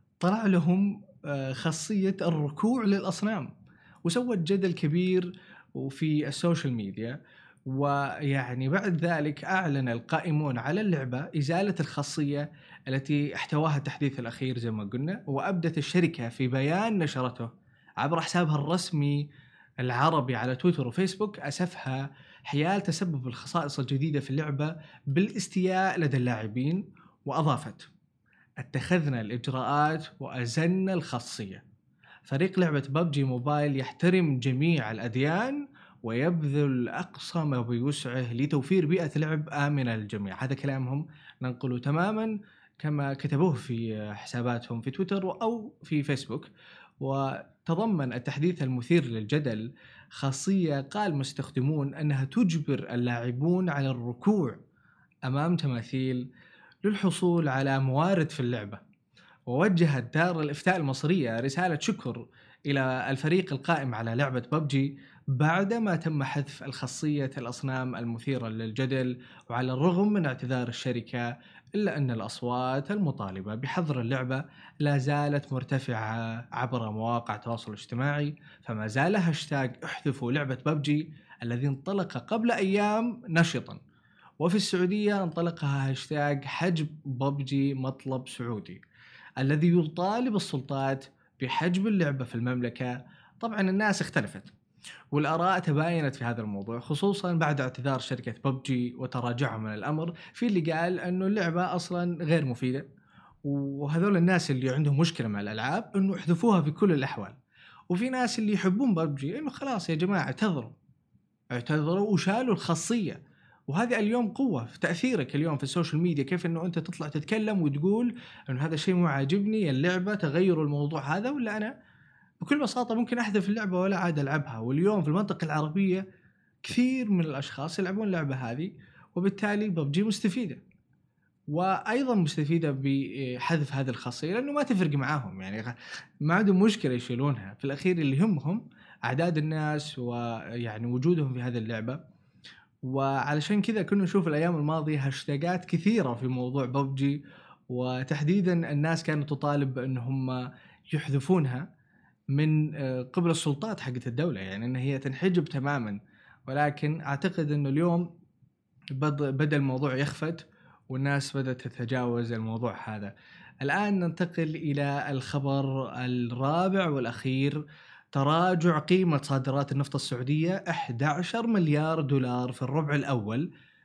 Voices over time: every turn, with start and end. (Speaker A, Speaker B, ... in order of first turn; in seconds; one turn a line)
Speaker A: 0.2-3.5
Speaker A: 4.0-7.2
Speaker A: 7.7-19.2
Speaker A: 19.8-27.9
Speaker A: 28.6-31.6
Speaker A: 32.3-46.5
Speaker A: 47.0-54.6
Speaker A: 55.3-56.2
Speaker A: 56.9-58.8
Speaker A: 59.5-83.8
Speaker A: 84.4-88.8
Speaker A: 89.4-94.5
Speaker A: 95.1-102.8
Speaker A: 103.5-107.3
Speaker A: 107.9-110.8
Speaker A: 111.5-113.2
Speaker A: 113.7-121.7
Speaker A: 122.4-126.0
Speaker A: 126.6-130.6
Speaker A: 131.5-142.0
Speaker A: 142.8-151.7
Speaker A: 152.3-158.1
Speaker A: 159.0-167.6
Speaker A: 168.1-173.5